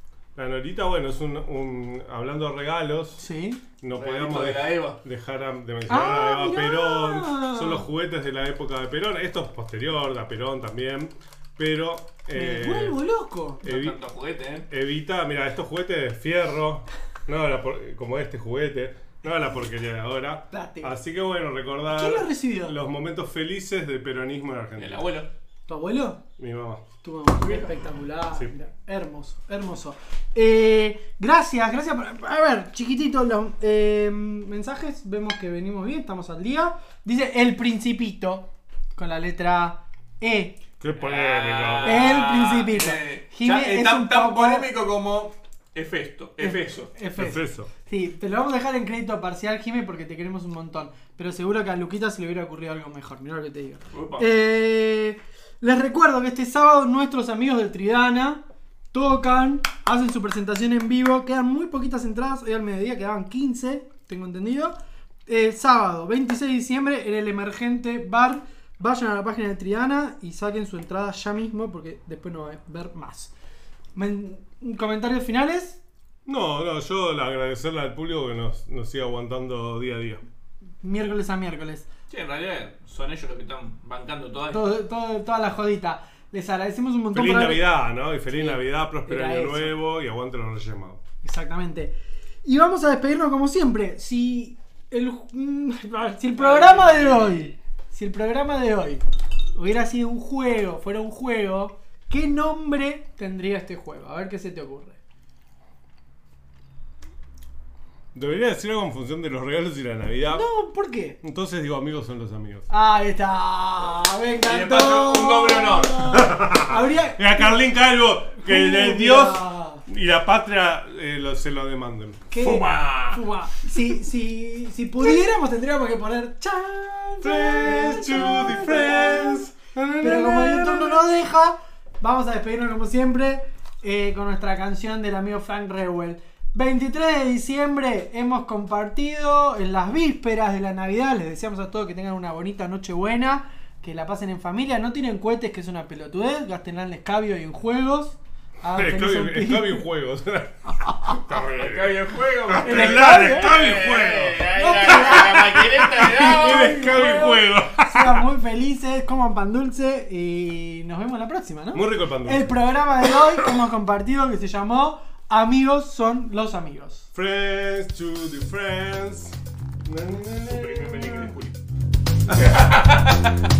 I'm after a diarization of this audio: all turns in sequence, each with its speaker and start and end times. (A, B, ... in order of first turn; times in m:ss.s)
0:00.4-0:03.3 A
0:03.2-0:03.6 B
0:03.8-0:13.0 A
0:04.0-0:05.0 C
0:05.9-0:07.8 B
0:12.3-0:13.6 B
0:13.6-0:14.7 C
0:13.6-0:14.0 A
0:14.7-0:25.0 A
0:20.5-0:20.9 B
0:21.9-0:22.8 B
0:24.8-0:25.3 C
0:25.7-0:26.2 B
0:26.4-0:26.9 A
0:27.0-0:40.6 B
0:40.8-0:42.1 A
0:41.0-0:46.9 C
0:41.8-0:44.7 B
0:46.4-1:13.3 B
0:47.2-0:47.7 A
0:53.9-0:54.3 C
1:14.0-1:15.8 B
1:16.3-1:20.2 A
1:20.8-1:21.9 B
1:22.1-1:24.7 C
1:24.5-1:27.7 B
1:27.1-1:31.0 A
1:28.3-1:29.8 B
1:31.2-1:39.0 B
1:36.4-1:37.5 C
1:39.5-1:45.0 B
1:48.1-1:50.5 A
1:50.3-1:51.2 B
1:51.2-1:52.7 A
1:52.7-1:57.6 B
1:54.4-1:56.0 C
1:55.1-2:03.2 A
1:58.4-1:59.8 B
2:02.3-2:09.5 B
2:07.2-2:11.1 A
2:10.0-2:29.8 B
2:28.8-2:38.2 A
2:30.9-2:31.2 B
2:31.3-2:36.8 C
2:32.6-2:33.6 B
2:34.6-2:47.1 B
2:41.7-2:42.5 A
2:47.1-2:51.4 A
2:50.5-2:51.5 C
2:52.3-2:52.7 A
2:52.4-2:53.3 C